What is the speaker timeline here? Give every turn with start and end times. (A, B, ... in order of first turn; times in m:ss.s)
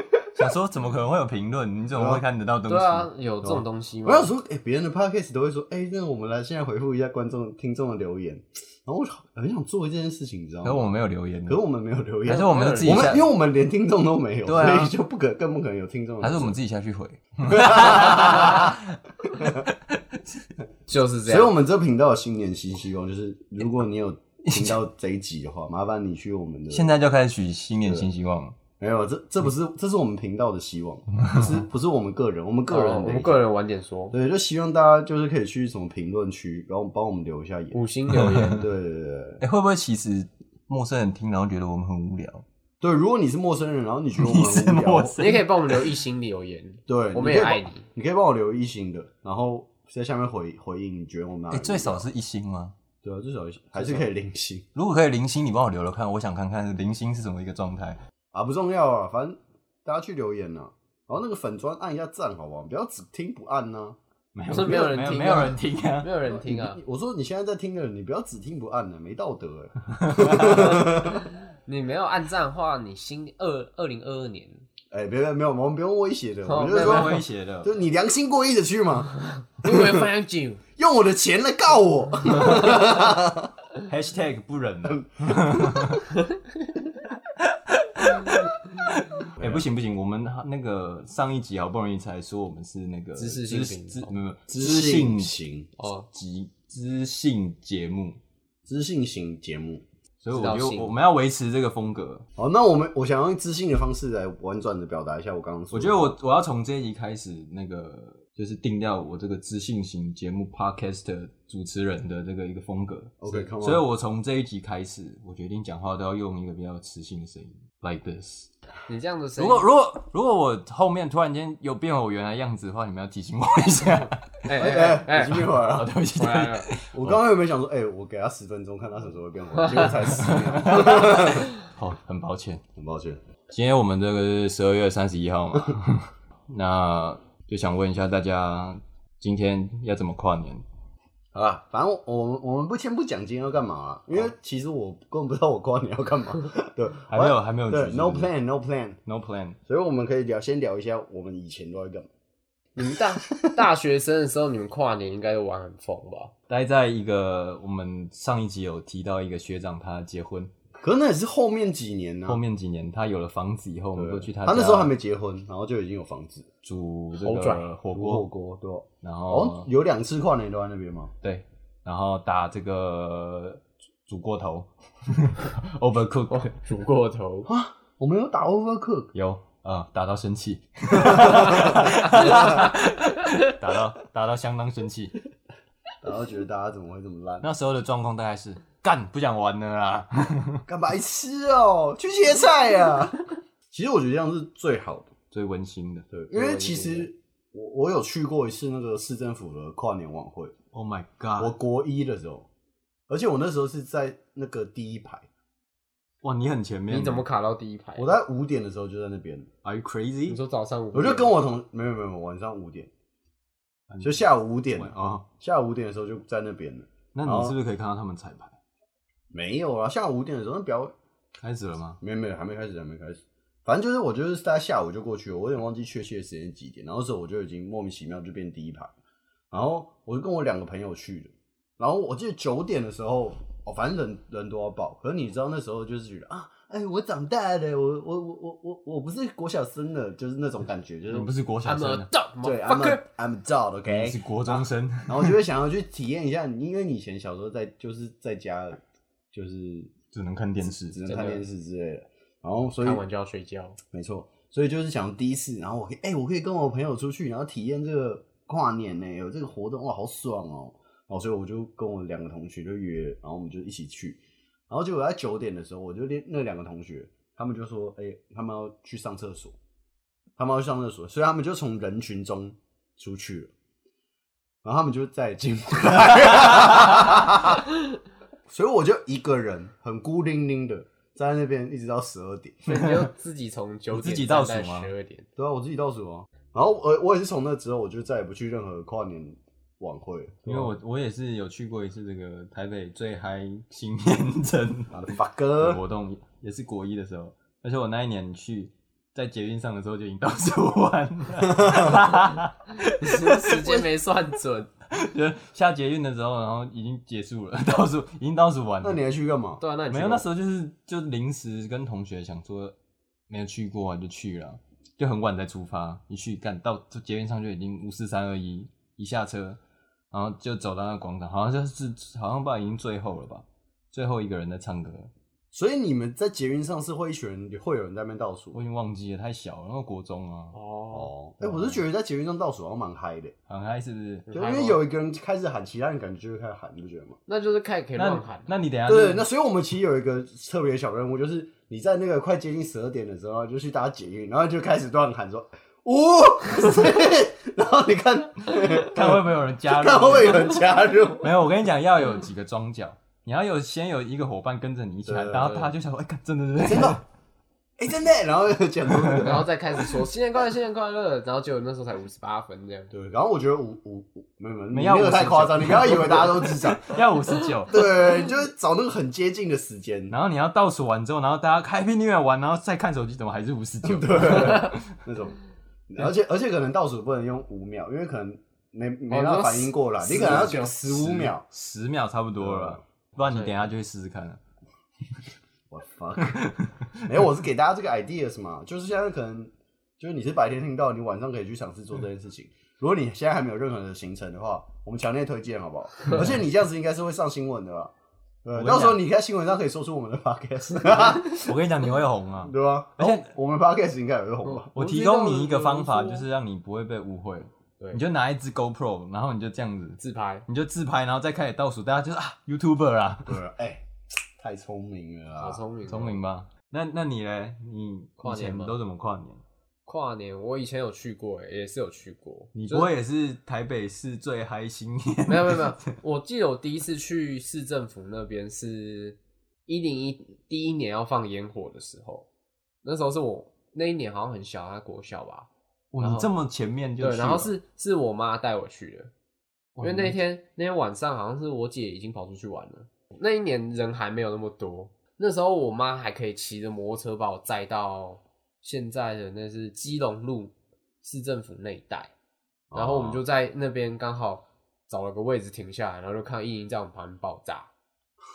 0:00.4-0:03.1 A
0:01.9-0:02.2 B
0:02.7-0:04.3 C
0:03.4-0:10.8 B
0:10.6-0:11.6 A
0:11.5-0:16.6 B
0:12.3-0:13.2 A
0:12.3-0:13.3 C
0:14.4-0:14.9 A
0:16.2-0:20.4 A
0:17.4-0:19.6 B
0:20.9-0:21.5 C
0:21.2-0:26.9 B
0:24.4-0:24.8 A
0:26.7-0:28.6 A
0:28.8-0:33.4 B
0:31.2-0:31.5 A
0:32.7-0:34.2 C
0:34.1-0:37.8 B
0:37.7-0:38.6 C
0:38.1-0:38.6 A
0:38.6-0:39.4 B
0:39.4-0:42.4 A
0:42.8-0:45.2 B
0:44.2-0:45.9 A
0:45.2-0:47.8 C
0:46.9-0:52.1 B
0:51.5-0:52.7 A
0:53.0-0:54.7 B
0:54.7-0:58.0 A
0:58.3-1:04.0 B
1:04.4-1:06.1 A
1:04.5-1:06.8 C
1:06.2-1:11.3 B
1:10.0-1:10.6 A
1:11.6-1:14.6 C
1:14.9-1:20.1 B
1:16.5-1:17.2 C
1:16.7-1:17.7 A
1:19.4-1:20.6 C
1:20.8-1:23.5 B
1:23.9-1:26.0 A
1:24.9-1:26.0 B
1:27.4-1:35.3 A
1:29.4-1:29.7 B
1:33.2-1:34.1 C
1:34.5-1:35.7 B
1:35.8-1:36.1 C
1:36.1-1:38.2 A
1:38.7-1:39.8 B
1:40.2-1:42.2 A
1:40.3-1:40.9 C
1:42.4-1:46.2 B
1:45.7-1:58.5 A
1:53.2-1:53.9 B
1:58.9-1:59.6 C
1:59.4-2:04.8 A
2:04.4-2:05.5 C
2:04.5-2:05.9 B
2:05.5-2:07.2 A
2:06.2-2:06.8 C
2:06.9-2:11.5 B
2:09.6-2:09.9 C
2:10.1-2:12.6 A
2:12.8-2:13.2 B
2:13.5-2:20.6 A
2:21.3-2:29.0 B
2:27.1-2:28.3 A
2:29.0-2:29.6 A
2:29.7-2:32.1 B
2:32.8-2:36.3 C
2:33.0-2:33.6 B
2:36.5-2:40.5 A
2:40.8-2:42.4 B
2:42.3-2:45.0 A
2:44.0-2:46.5 B
2:46.6-2:48.3 A
2:47.2-2:47.7 C
2:47.9-2:51.1 B
2:49.0-2:49.7 A
2:51.2-2:56.5 A
2:56.3-2:57.5 C
2:57.5-2:59.1 B
2:59.1-3:05.2 A
3:01.0-3:01.8 B
3:06.0-3:07.5 B
3:07.4-3:10.6 A
3:10.7-3:15.1 B
3:15.3-3:16.1 A
3:16.1-3:20.5 B
3:16.3-3:17.1 C
3:20.7-3:21.6 A
3:21.4-3:22.5 B
3:23.1-3:25.3 B
3:26.2-3:27.2 A
3:26.9-3:28.2 C
3:28.0-3:29.5 B
3:29.6-3:30.4 A
3:30.3-3:31.4 C
3:30.9-3:32.9 B
3:33.9-3:35.2 A
3:34.0-3:37.5 B
3:37.1-3:38.6 A
3:39.3-3:40.9 B
3:41.4-3:42.0 A
3:42.0-3:48.9 B
3:49.5-4:01.3 B
4:01.1-4:02.1 A
4:01.6-4:03.0 C
4:02.4-4:08.8 B
4:03.9-4:05.4 A
4:09.3-4:09.9 B
4:10.1-4:11.0 A
4:10.8-4:13.0 B
4:11.1-4:11.4 C
4:12.8-4:13.8 C
4:13.9-4:29.6 B
4:30.4-4:33.5 B
4:34.6-4:37.7 B
4:38.5-4:42.8 B
4:42.7-4:45.3 C
4:42.7-4:43.1 A
4:43.9-4:44.9 A
4:45.4-4:50.7 B
4:50.5-4:55.0 A
4:54.9-4:55.8 B
4:55.6-5:03.6 A
5:03.0-5:04.7 C
5:04.9-5:09.0 A
5:08.8-5:09.6 B
5:09.6-5:10.2 C
5:09.9-5:12.8 A
5:13.3-5:19.6 A
5:20.1-5:25.1 A
5:25.5-5:28.6 B
5:28.5-5:30.6 A
5:30.5-5:31.1 C
5:30.9-5:33.4 B
5:31.4-5:31.8 A
5:33.5-5:34.3 A
5:34.3-5:34.8 C
5:34.3-5:37.2 B
5:37.3-5:38.5 C
5:38.0-5:39.3 A
5:38.9-5:51.3 B
5:48.6-5:50.7 A
5:51.2-5:57.0 A
5:55.1-5:55.7 B
5:56.6-5:57.0 B
5:57.8-5:59.5 B
5:59.0-5:59.3 A
5:59.2-6:02.9 C
6:02.9-6:07.0 B
6:04.7-6:08.0 A
6:07.7-6:10.2 B
6:10.1-6:15.0 A
6:13.8-6:15.4 B
6:15.9-6:21.4 B
6:19.1-6:21.2 C
6:21.2-6:24.4 A
6:22.4-6:22.8 B
6:23.3-6:23.6 C
6:25.7-6:26.4 B
6:26.2-6:26.9 A
6:27.0-6:37.9 B
6:38.4-6:41.5 B
6:38.5-6:39.0 A
6:41.1-6:43.3 A
6:42.4-6:44.7 B
6:44.4-6:46.2 C
6:44.7-6:53.4 A
6:50.0-6:50.5 C
6:53.3-6:55.6 B
6:55.4-6:56.2 C
6:55.9-6:59.4 A
6:58.2-6:58.8 C
6:59.9-7:02.9 C
7:02.6-7:05.9 A
7:05.3-7:12.3 C
7:12.8-7:15.5 C
7:15.9-7:17.5 A
7:16.0-7:16.3 C
7:17.0-7:19.1 C
7:19.8-7:20.2 A
7:19.8-7:30.5 C
7:31.0-7:32.1 C
7:32.7-7:33.2 B
7:32.7-7:37.7 C